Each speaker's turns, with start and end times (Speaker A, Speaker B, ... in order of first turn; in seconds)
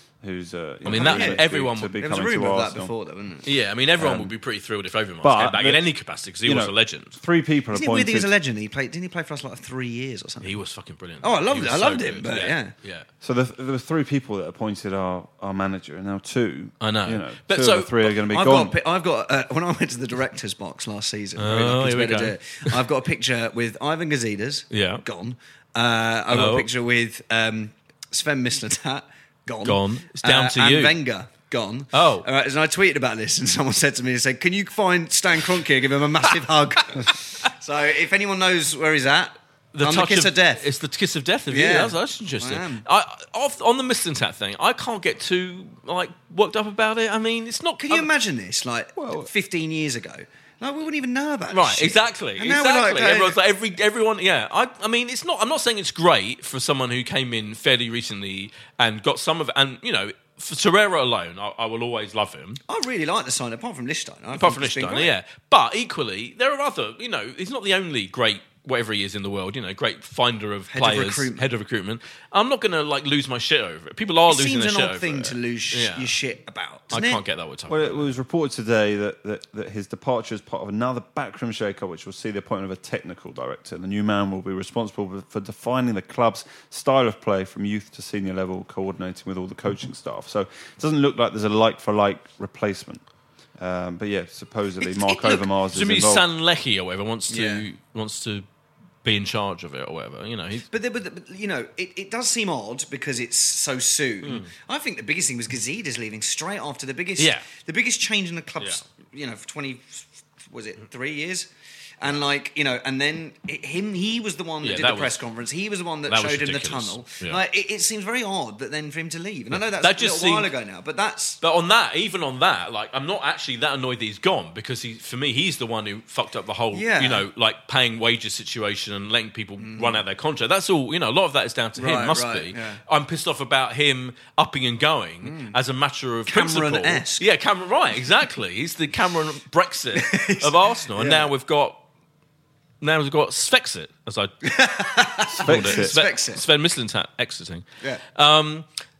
Speaker A: 0.2-2.9, 4.0-4.3, 5.2-5.9, 6.4-8.3, 13.2-18.8, 49.0-49.3, 77.7-93.0, 93.6-96.2, 145.3-146.0
Speaker B: 0.9-2.0, 3.5-7.2, 10.4-13.1, 16.8-18.1, 21.4-22.8, 24.7-25.0, 26.3-26.7, 29.6-31.0, 31.9-32.3, 39.7-48.1, 51.5-62.6, 64.3-76.1, 76.9-78.0, 95.7-98.5, 99.0-100.7, 104.2-104.5, 107.2-107.5, 114.6-115.2, 116.1-117.4, 119.5-120.5, 121.4-141.8, 142.8-144.3, 145.4-148.7
Speaker C: 0.9-1.4, 2.0-3.5, 7.7-10.6, 11.2-12.7, 18.3-40.6, 41.5-42.8, 47.8-53.4, 62.7-65.1, 70.7-71.4, 74.3-77.2, 94.8-95.5, 97.3-97.6, 100.7-111.5, 112.0-121.4, 126.7-127.3, 129.6-130.0, 131.8-132.8, 135.2-135.6, 136.3-137.2, 139.9-141.3, 144.4-146.4